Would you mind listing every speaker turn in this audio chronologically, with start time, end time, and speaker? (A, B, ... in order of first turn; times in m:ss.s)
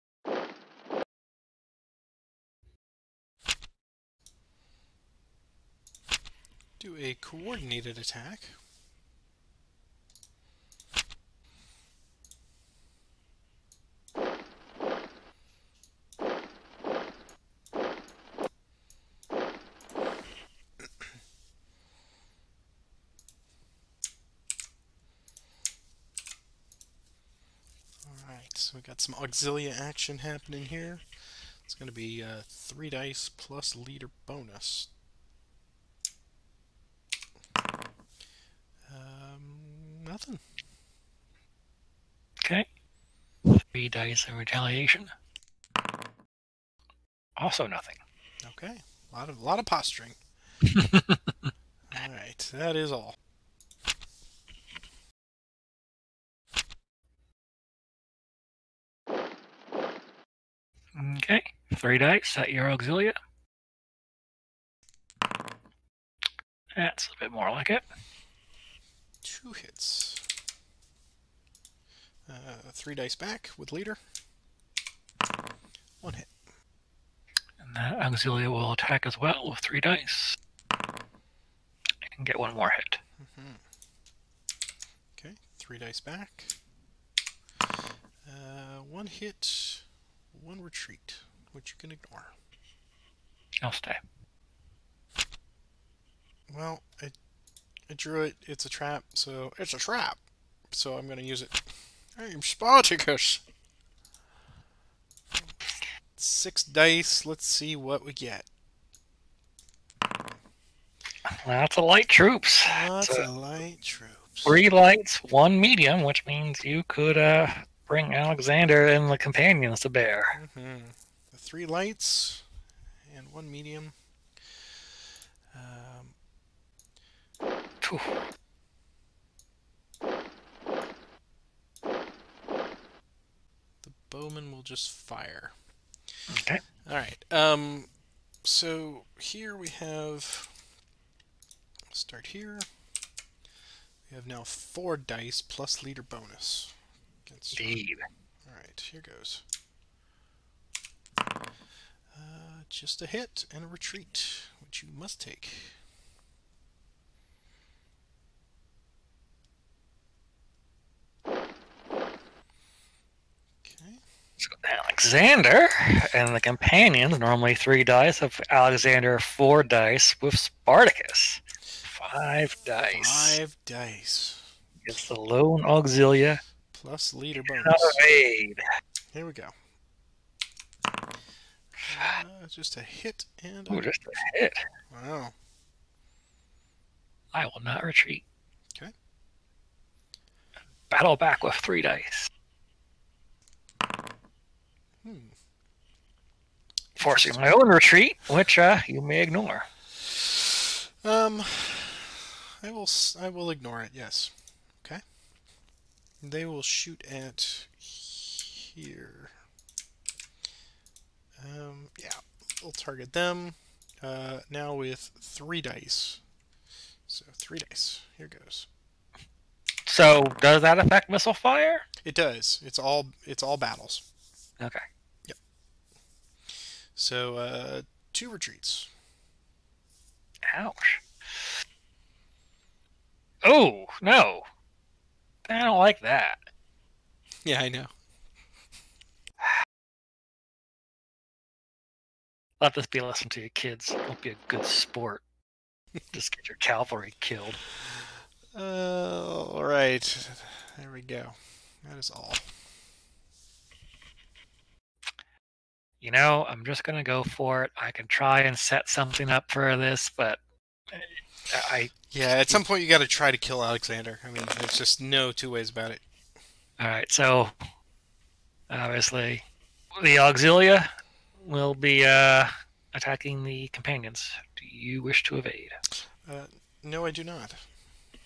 0:06.8-0:08.5 A
0:20.8-0:21.1 A
0:28.0-0:34.9 A
0:38.8-0:40.4 A
0:43.5-0:45.1 B
0:47.4-0:48.0 B
0:48.4-0:50.2 A
0:50.6-0:51.5 B
0:51.9-0:53.2 A
1:01.0-1:03.2 B
1:06.8-1:07.8 B
1:09.2-1:10.2 A
1:12.3-1:14.0 A
1:16.0-1:16.3 A
1:17.6-1:20.4 B
1:22.1-1:23.0 B
1:23.2-1:23.6 A
1:25.2-1:26.6 A
1:28.2-1:32.3 A
1:33.6-1:34.0 B
1:36.5-1:37.1 A
1:37.9-1:40.2 A
1:40.7-1:43.4 A
1:46.2-1:48.5 A
1:51.4-1:53.3 B
1:52.6-1:54.6 A
1:54.4-2:00.4 B
2:00.3-2:02.4 A
2:03.0-2:03.9 A
2:05.5-2:06.1 A
2:07.8-2:08.2 B
2:13.8-2:15.5 A
2:16.3-2:16.6 B
2:16.8-2:17.9 A
2:18.4-2:20.5 A
2:21.9-2:22.7 A
2:24.1-2:27.8 A
2:27.5-2:28.0 B
2:28.4-2:29.4 A
2:32.1-2:35.8 A
2:43.6-2:44.0 A
2:44.4-2:53.4 B
2:52.9-2:54.5 A
2:54.8-2:56.4 B
2:56.7-2:58.0 A
2:57.5-2:58.6 B
2:59.1-2:59.5 A
3:01.9-3:03.9 A
3:03.7-3:04.6 B
3:04.9-3:05.3 A
3:07.3-3:08.2 B
3:10.9-3:12.3 B
3:15.0-3:15.3 A
3:17.0-3:17.4 A
3:17.0-3:19.7 B
3:21.0-3:25.0 A
3:26.2-3:29.3 A
3:31.4-3:36.2 A
3:37.1-3:38.7 A
3:39.9-3:41.8 B
3:42.0-3:44.0 A
3:47.0-3:48.9 A
3:50.5-3:51.5 B
3:53.4-3:54.4 B
3:55.5-3:56.4 B
3:57.4-3:57.9 A
4:02.6-4:05.2 B
4:06.1-4:07.6 B
4:08.5-4:12.5 A
4:16.0-4:22.6 B
4:22.1-4:26.0 A
4:26.8-4:27.5 B
4:28.7-4:29.4 B
4:30.0-4:35.8 B
4:36.2-4:37.6 A